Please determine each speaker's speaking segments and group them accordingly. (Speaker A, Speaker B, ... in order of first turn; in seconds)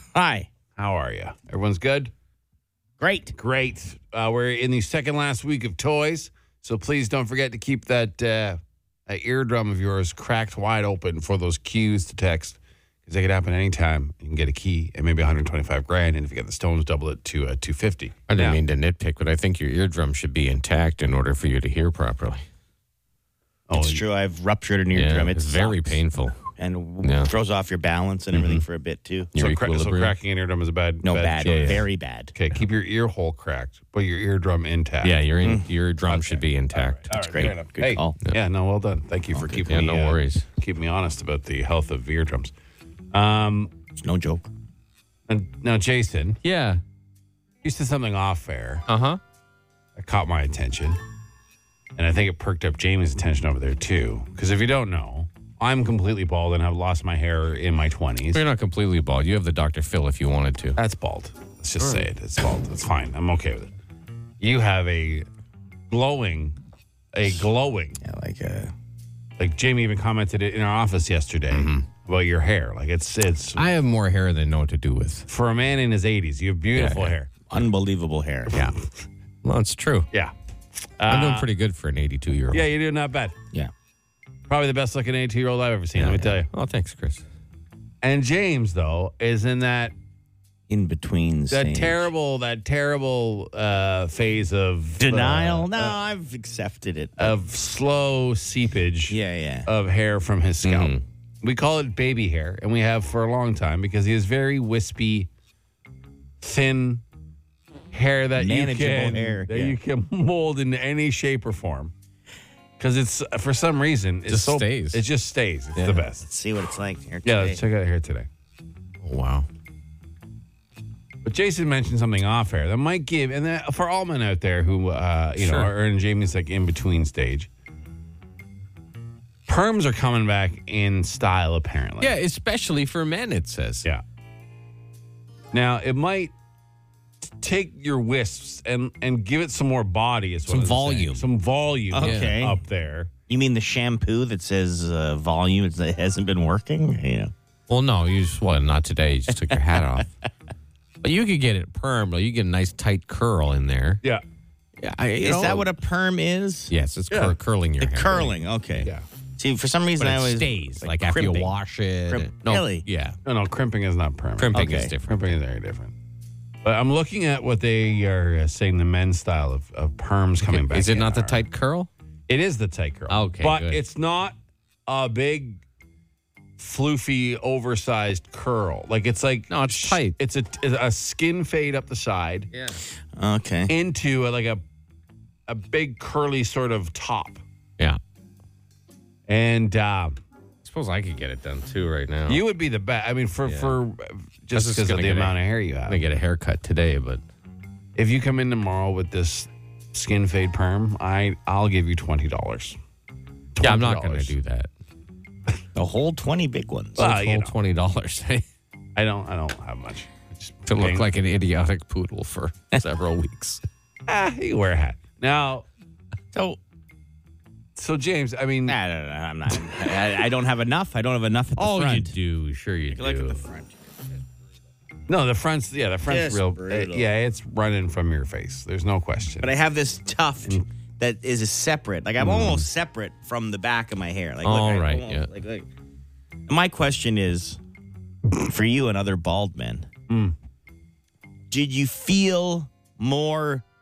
Speaker A: 0.1-0.5, 3.0-3.4, 23.7-26.0, 26.6-29.3, 31.0-32.3, 35.4-35.7, 37.1-38.1, 44.0-44.5, 68.0-68.7, 77.5-78.6, 90.7-92.1, 95.0-97.4, 99.1-99.7, 108.4-109.8, 116.2-117.6, 141.9-142.6, 143.3-147.3, 149.3-149.6, 155.2-156.7, 157.8-161.5, 162.1-162.8, 164.5-164.9, 183.2-183.7, 205.8-207.1, 216.3-216.6, 218.7-222.2, 222.9-223.8, 226.1-227.1, 229.4-235.7, 236.5-237.6, 238.4-239.9, 241.5-243.6
Speaker B: 0.8-2.1, 3.4-18.6, 23.7-24.0, 29.4-35.2, 36.1-42.5, 43.1-43.7, 45.3-46.4, 47.6-48.8, 50.0-51.0, 52.0-58.4, 60.8-63.7, 64.4-65.3, 65.9-66.6, 67.1-68.0, 69.4-73.6, 75.3-77.5, 81.0-81.5, 82.5-83.3, 84.5-86.5, 88.0-89.9, 91.5-96.0, 97.2-105.3, 106.4-107.0, 107.9-111.9, 112.8-116.3, 117.2-118.3, 121.2-127.5, 129.5-132.2, 135.5-136.3, 137.2-143.1, 163.2-165.9, 166.6-171.4, 172.3-175.6, 176.6-182.5, 183.7-184.6, 185.5-187.4, 189.3-190.2, 192.3-196.0, 198.0-202.8, 203.6-204.3, 207.0-207.5, 209.0-211.1, 214.1-215.7, 217.8-218.8, 225.1-229.5, 232.2-232.7, 240.1-240.3
Speaker C: 18.3-22.4, 24.9-26.4, 27.0-27.3, 28.3-28.6, 29.4-30.1, 31.4-31.9, 35.0-37.1, 39.6-40.5, 46.4-46.8, 48.9-49.2, 58.3-60.8, 61.8-62.1, 71.5-71.9, 73.6-75.3, 76.8-77.1, 79.4-80.1, 81.1-82.7, 86.0-87.2, 100.7-101.0, 114.3-115.0, 119.0-119.5, 125.4-125.7, 132.0-133.9, 140.5-141.2, 142.0-142.4, 147.7-150.1, 151.0-154.0, 154.8-155.7, 156.7-158.3, 160.0-163.2, 164.4-165.4, 170.4-171.9, 173.1-173.8, 179.5-180.2, 182.5-182.8, 190.6-192.4, 193.5-193.7, 194.6-195.4, 195.9-197.2, 203.6-204.7, 207.0-208.4, 210.7-213.6, 221.6-223.4, 234.4-235.3